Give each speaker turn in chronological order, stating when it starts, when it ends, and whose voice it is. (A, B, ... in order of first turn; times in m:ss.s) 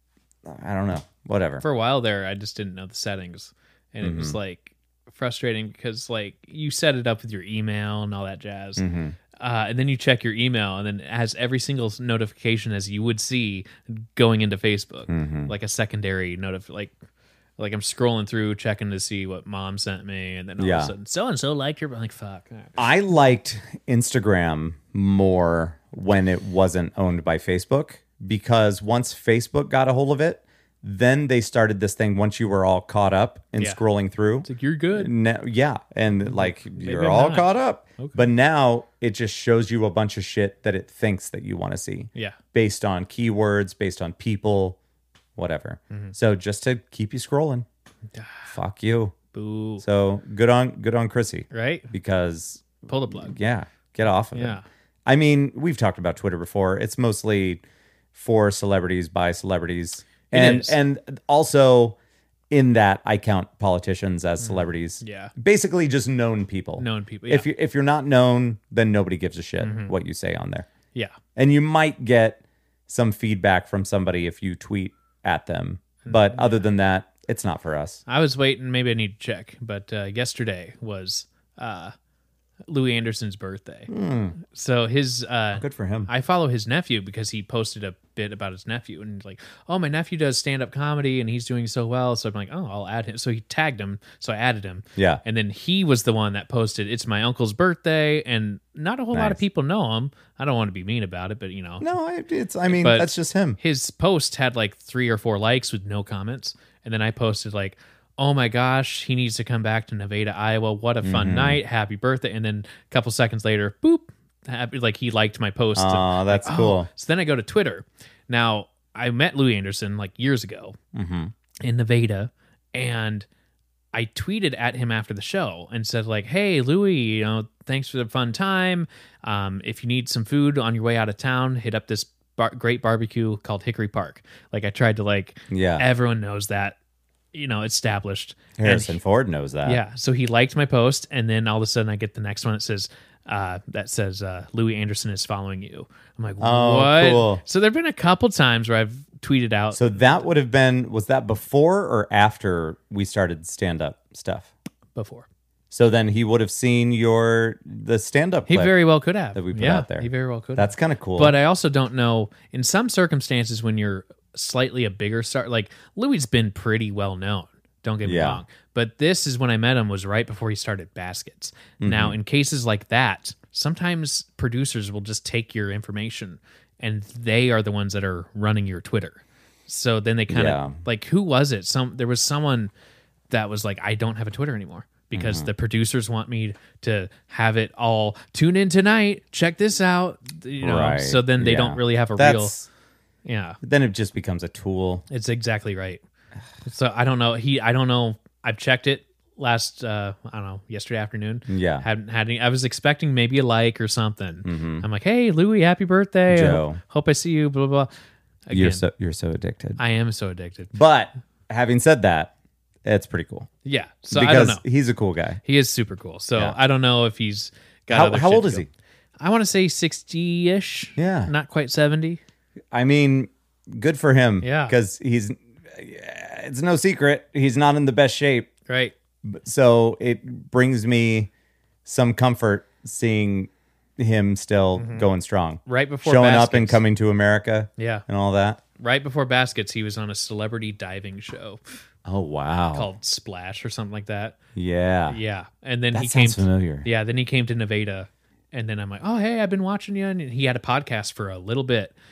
0:00.4-0:01.6 A
0:01.6-0:08.8 B
0:04.0-0:04.4 A
0:08.8-0:09.2 A
0:09.4-0:16.9 B
0:15.1-0:15.5 A
0:17.6-0:22.8 B
0:20.6-0:20.9 A
0:22.8-0:44.8 A
0:34.4-0:35.1 B
0:36.2-0:38.3 B
0:45.4-0:47.6 A
0:48.1-0:48.4 B
0:48.5-0:49.1 A
0:49.3-0:49.8 B
0:49.8-0:57.6 A
0:51.5-0:51.9 B
0:52.9-0:53.3 B
0:54.3-0:54.6 B
0:58.1-1:02.0 A
1:00.3-1:00.8 B
1:02.5-1:10.7 A
1:04.4-1:05.3 B
1:06.8-1:07.4 B
1:09.6-1:09.9 B
1:11.3-1:18.0 A
1:16.0-1:16.6 B
1:18.1-1:21.9 B
1:22.7-1:41.8 B
1:23.9-1:24.4 A
1:25.5-1:26.1 A
1:34.9-1:35.2 A
1:39.1-1:39.4 A
1:41.8-1:43.6 A
1:42.6-2:00.8 B
1:51.0-1:51.6 A
1:55.8-1:56.9 A
2:00.9-2:01.3 A
2:01.6-2:03.3 B
2:03.9-2:16.8 B
2:15.5-2:15.8 A
2:17.3-2:19.0 B
2:18.6-2:19.8 A
2:19.6-2:30.2 B
2:26.4-2:27.4 A
2:29.7-2:34.5 A
2:34.9-2:35.2 B
2:35.7-2:38.8 A
2:38.5-3:02.7 B
2:39.3-2:41.3 A
2:48.0-2:48.4 A
2:51.8-2:52.2 A
3:00.3-3:00.8 A
3:03.3-3:12.6 B
3:05.1-3:05.5 A
3:10.6-3:12.7 A
3:13.2-3:13.6 B
3:13.6-3:15.0 A
3:15.1-3:16.0 B
3:16.6-3:27.9 B
3:21.5-3:21.8 A
3:24.4-3:24.8 A
3:26.3-3:26.8 A
3:28.5-3:28.8 B
3:28.5-3:29.8 A
3:29.8-3:30.7 B
3:30.7-3:32.3 A
3:32.8-3:33.5 A
3:33.6-3:34.6 B
3:34.1-3:35.4 A
3:35.4-3:38.6 B
3:37.9-3:38.7 A
3:39.2-3:42.2 B
3:41.0-3:41.3 A
3:42.7-3:48.5 A
3:44.4-3:44.8 B
3:48.7-3:48.9 B
3:49.2-3:51.3 A
3:51.8-3:58.6 A
3:54.8-3:55.1 B
3:55.6-3:56.8 B
3:57.8-3:58.0 B
3:58.8-4:01.6 B
4:02.0-4:02.9 A
4:02.7-4:04.4 B
4:04.5-4:05.2 A
4:05.1-4:11.9 B
4:05.9-4:06.9 A